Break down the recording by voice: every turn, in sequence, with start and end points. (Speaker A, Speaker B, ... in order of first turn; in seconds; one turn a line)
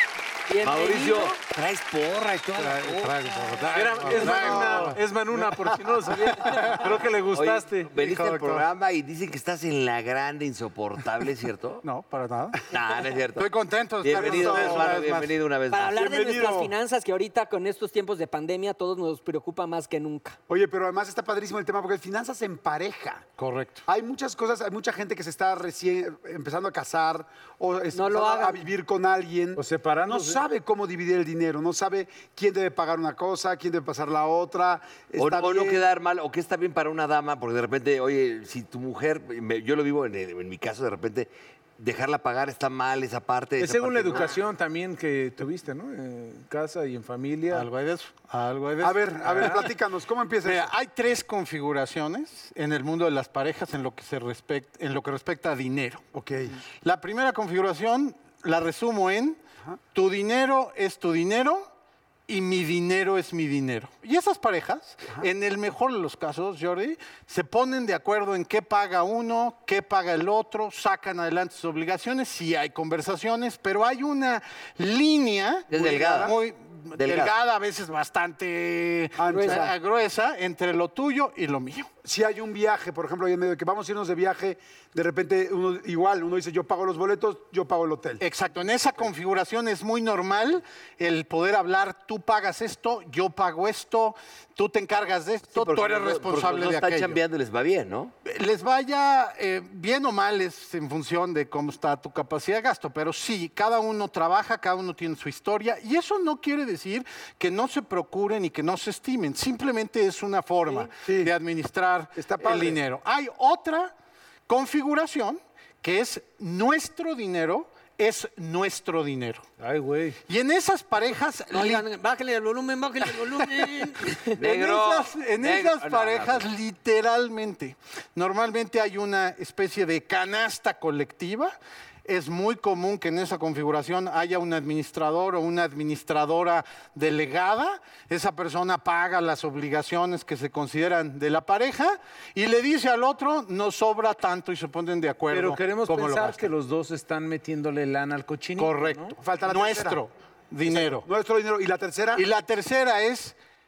Speaker A: 0.5-1.4
Speaker B: 0.6-3.1
Speaker C: 2.5-6.9
Speaker D: 3.7-7.9
Speaker B: 4.2-4.8
Speaker B: 7.3-11.8
Speaker C: 8.0-8.7
Speaker C: 11.8-12.7
Speaker B: 12.7-13.5
Speaker C: 13.4-15.3
Speaker B: 14.0-16.0
Speaker E: 14.1-15.1
Speaker A: 15.7-20.4
Speaker E: 16.0-16.7
Speaker E: 20.5-23.2
Speaker C: 23.4-23.8
Speaker E: 23.9-35.9
Speaker A: 27.9-28.6
Speaker D: 29.6-30.4
Speaker B: 35.2-44.4
Speaker D: 43.6-47.7
Speaker C: 47.5-49.7
Speaker E: 48.8-50.7
Speaker C: 50.4-56.0
Speaker E: 56.1-56.6
Speaker C: 56.8-59.4
Speaker C: 59.9-61.7
Speaker C: 62.3-81.9
Speaker B: 75.7-76.3
Speaker E: 75.7-76.3
Speaker B: 77.0-77.3
Speaker E: 79.2-79.7
Speaker A: 79.3-79.7
Speaker E: 82.0-88.2
Speaker C: 88.2-97.2
Speaker B: 95.6-98.1
Speaker C: 98.2-113.9
Speaker E: 110.9-111.3
Speaker E: 112.2-112.8
Speaker C: 114.5-119.5
Speaker D: 119.6-120.2
Speaker C: 120.3-121.9
Speaker A: 121.5-124.4
Speaker C: 123.1-146.5
Speaker B: 124.4-126.5
Speaker D: 145.3-149.2
Speaker C: 148.6-151.1
Speaker E: 149.2-150.0
Speaker E: 150.7-152.3
Speaker C: 152.2-153.3